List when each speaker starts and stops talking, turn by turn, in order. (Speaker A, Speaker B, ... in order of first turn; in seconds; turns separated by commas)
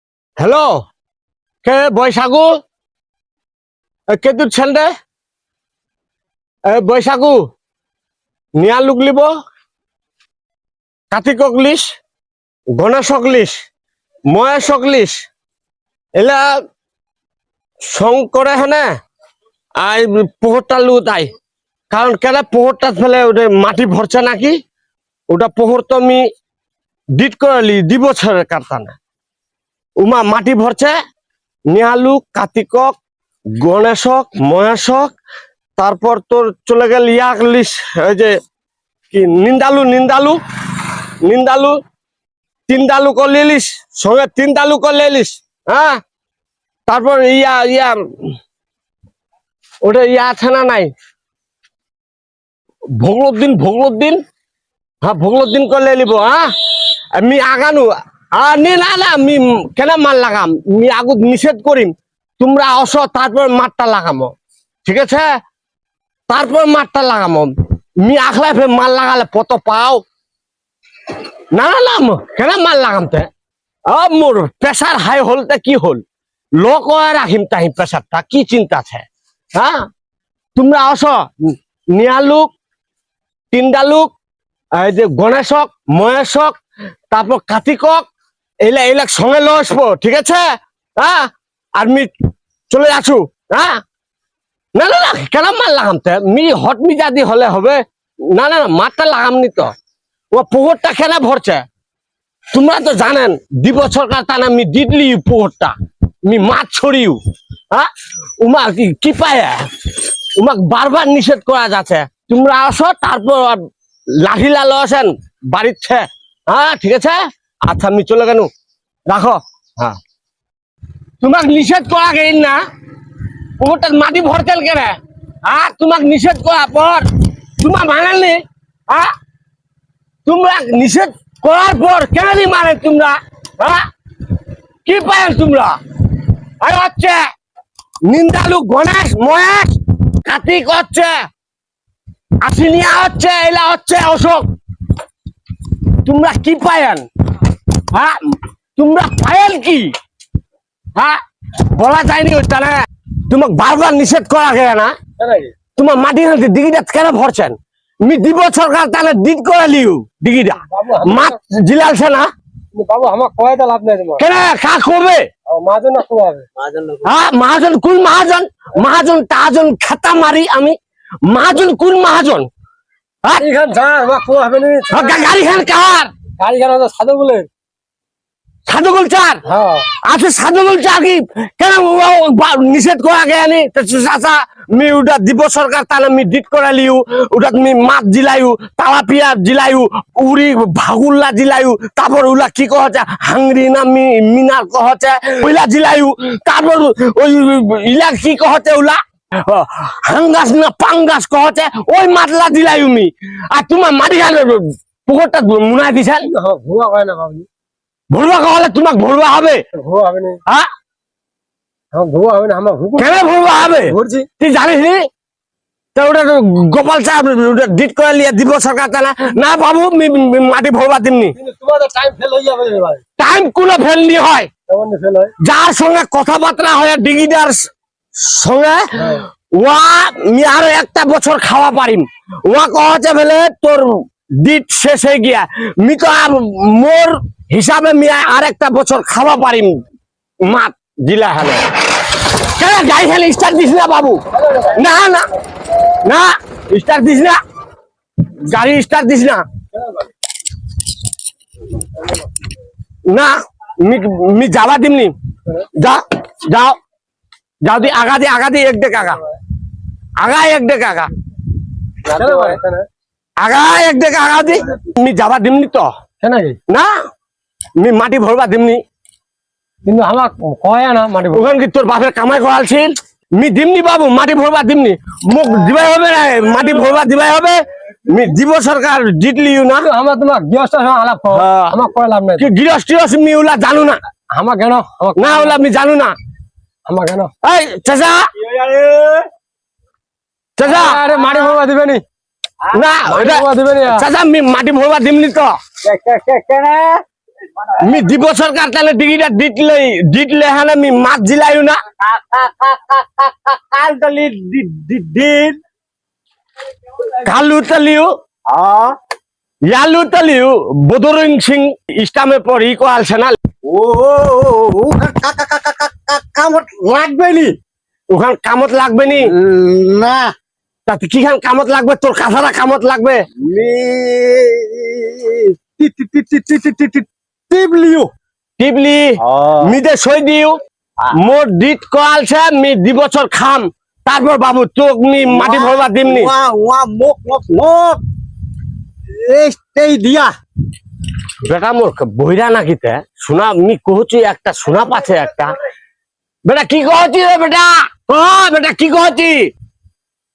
Speaker A: 0.4-0.8, Speaker A: 1.6-2.5, Speaker A: 4.1-4.9, Speaker A: 6.7-7.4, Speaker A: 8.6-9.3, Speaker A: 11.1-11.8, Speaker A: 12.8-13.5, Speaker A: 14.3-15.2, Speaker A: 16.1-16.5, Speaker A: 17.9-18.9, Speaker A: 19.8-21.3, Speaker A: 21.9-24.6, Speaker A: 25.3-26.2, Speaker A: 27.2-29.0, Speaker A: 30.0-30.9, Speaker A: 31.7-33.0, Speaker A: 33.6-35.1, Speaker A: 35.8-38.3, Speaker A: 39.1-40.4, Speaker A: 41.2-41.8, Speaker A: 42.7-46.0, Speaker A: 46.9-48.3, Speaker A: 49.8-50.9, Speaker A: 53.0-54.2, Speaker A: 55.0-65.3, Speaker A: 66.3-70.0, Speaker A: 71.5-73.3, Speaker A: 73.9-76.0, Speaker A: 76.6-79.9, Speaker A: 80.5-82.5, Speaker A: 83.5-84.1, Speaker A: 84.8-86.6, Speaker A: 87.1-88.0, Speaker A: 88.6-90.5, Speaker A: 91.0-92.1, Speaker A: 92.7-93.8, Speaker A: 94.8-99.7, Speaker A: 100.3-101.6, Speaker A: 102.5-107.2, Speaker A: 107.7-109.7, Speaker A: 110.4-113.6, Speaker A: 114.2-118.5, Speaker A: 119.1-120.0, Speaker A: 121.2-122.6, Speaker A: 123.6-127.1, Speaker A: 127.6-129.1, Speaker A: 130.2-133.8, Speaker A: 134.8-135.8, Speaker A: 136.6-137.2, Speaker A: 138.0-141.1, Speaker A: 142.4-144.5, Speaker A: 146.0-147.1, Speaker A: 147.9-149.9, Speaker A: 150.9-154.9, Speaker B: 155.2-155.5, Speaker A: 155.8-162.3, Speaker B: 160.6-161.3, Speaker B: 162.7-164.2, Speaker A: 164.2-165.3, Speaker B: 165.5-166.5, Speaker C: 166.6-167.0, Speaker A: 167.0-172.5, Speaker B: 173.4-175.3, Speaker A: 174.9-176.1, Speaker B: 176.4-177.5, Speaker A: 178.7-179.4, Speaker B: 179.4-179.9, Speaker A: 180.0-206.3, Speaker B: 206.3-207.5, Speaker A: 208.1-209.6, Speaker B: 209.8-210.4, Speaker B: 211.9-213.1, Speaker A: 213.0-215.1, Speaker B: 213.8-214.3, Speaker A: 215.9-221.3, Speaker B: 221.4-223.0, Speaker A: 223.2-224.5, Speaker B: 224.7-225.3, Speaker A: 225.4-227.6, Speaker A: 228.2-233.9, Speaker A: 234.4-239.7, Speaker A: 240.4-245.3, Speaker B: 244.3-244.8, Speaker A: 246.0-247.4, Speaker A: 248.4-249.4, Speaker A: 253.1-255.1, Speaker A: 255.8-256.8, Speaker A: 257.6-259.2, Speaker A: 260.2-261.1, Speaker B: 262.0-262.9, Speaker A: 263.4-265.9, Speaker B: 266.2-266.6, Speaker A: 267.8-268.8, Speaker B: 269.8-271.5, Speaker A: 271.3-279.9, Speaker B: 279.8-282.5, Speaker A: 281.3-281.8, Speaker A: 282.4-284.0, Speaker B: 284.3-285.6, Speaker A: 285.2-286.1, Speaker B: 286.9-287.3, Speaker A: 287.4-288.3, Speaker C: 288.4-289.3, Speaker A: 290.6-291.1, Speaker B: 290.6-292.0, Speaker A: 292.7-295.6, Speaker B: 293.1-294.0, Speaker C: 295.8-297.0, Speaker A: 297.8-301.8, Speaker C: 302.0-305.6, Speaker A: 307.2-308.1, Speaker C: 308.5-308.9, Speaker A: 309.7-313.4, Speaker C: 313.6-317.6, Speaker A: 318.1-319.3, Speaker C: 319.2-320.3, Speaker A: 320.9-323.2, Speaker C: 323.4-328.1, Speaker A: 328.6-329.1, Speaker C: 329.2-329.8, Speaker A: 329.6-330.6, Speaker A: 331.2-336.3, Speaker C: 335.2-338.0, Speaker C: 339.2-340.3, Speaker A: 341.4-345.5, Speaker A: 346.4-349.5